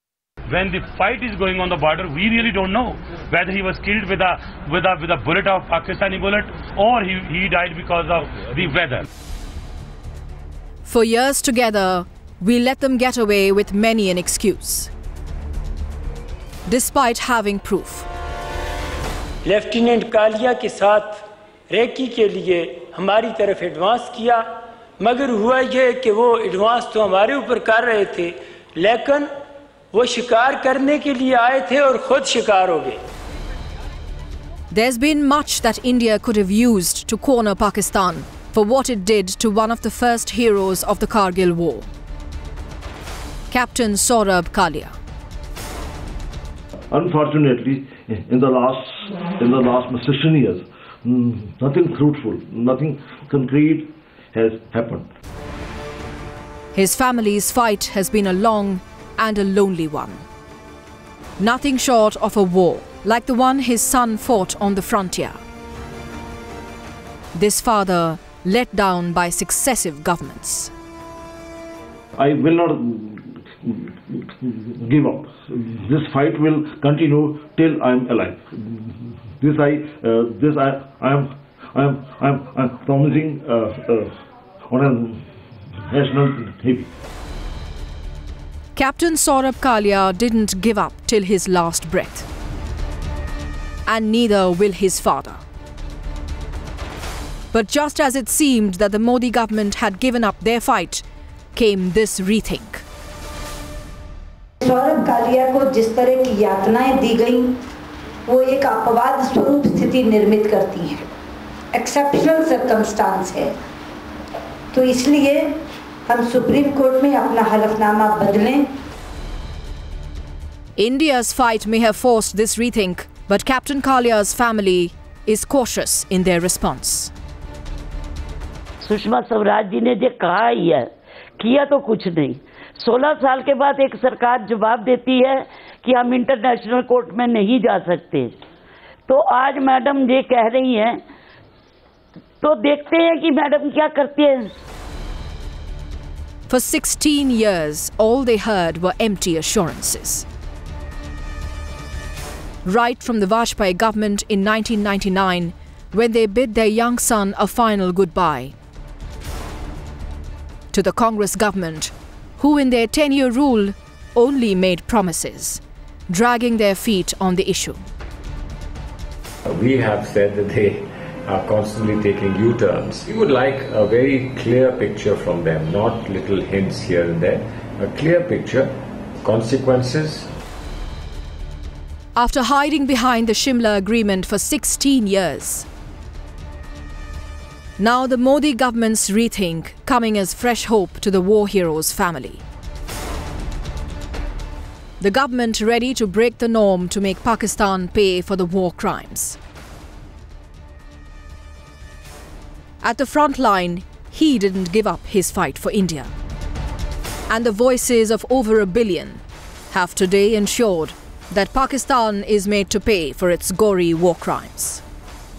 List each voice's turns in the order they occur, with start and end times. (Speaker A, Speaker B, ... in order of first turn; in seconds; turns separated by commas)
Speaker A: 0.5-9.1, Speaker B: 10.8-14.9, Speaker B: 16.7-18.1, Speaker C: 19.4-21.1, Speaker C: 21.7-24.4, Speaker C: 25.0-29.2, Speaker C: 29.9-33.0, Speaker B: 34.7-41.9, Speaker B: 43.5-44.9, Speaker D: 46.9-55.1, Speaker B: 56.7-60.2, Speaker B: 61.4-65.4, Speaker B: 67.3-70.7, Speaker D: 72.2-84.2, Speaker D: 84.7-85.2, Speaker D: 85.9-86.9, Speaker B: 88.8-92.2, Speaker B: 93.8-95.4, Speaker B: 97.5-101.0, Speaker B: 101.5-102.8, Speaker E: 104.6-107.5, Speaker E: 108.2-111.0, Speaker E: 111.7-113.5, Speaker E: 114.7-115.5, Speaker E: 116.1-118.7, Speaker B: 120.8-127.1, Speaker F: 128.8-138.3, Speaker F: 139.1-141.0, Speaker F: 142.4-144.5, Speaker B: 146.5-150.2, Speaker B: 152.6-158.5, Speaker B: 160.7-167.8, Speaker G: 169.5-180.3, Speaker B: 182.2-185.7, Speaker B: 187.8-192.4, Speaker B: 195.0-199.4, Speaker B: 202.8-206.1, Speaker B: 207.3-214.8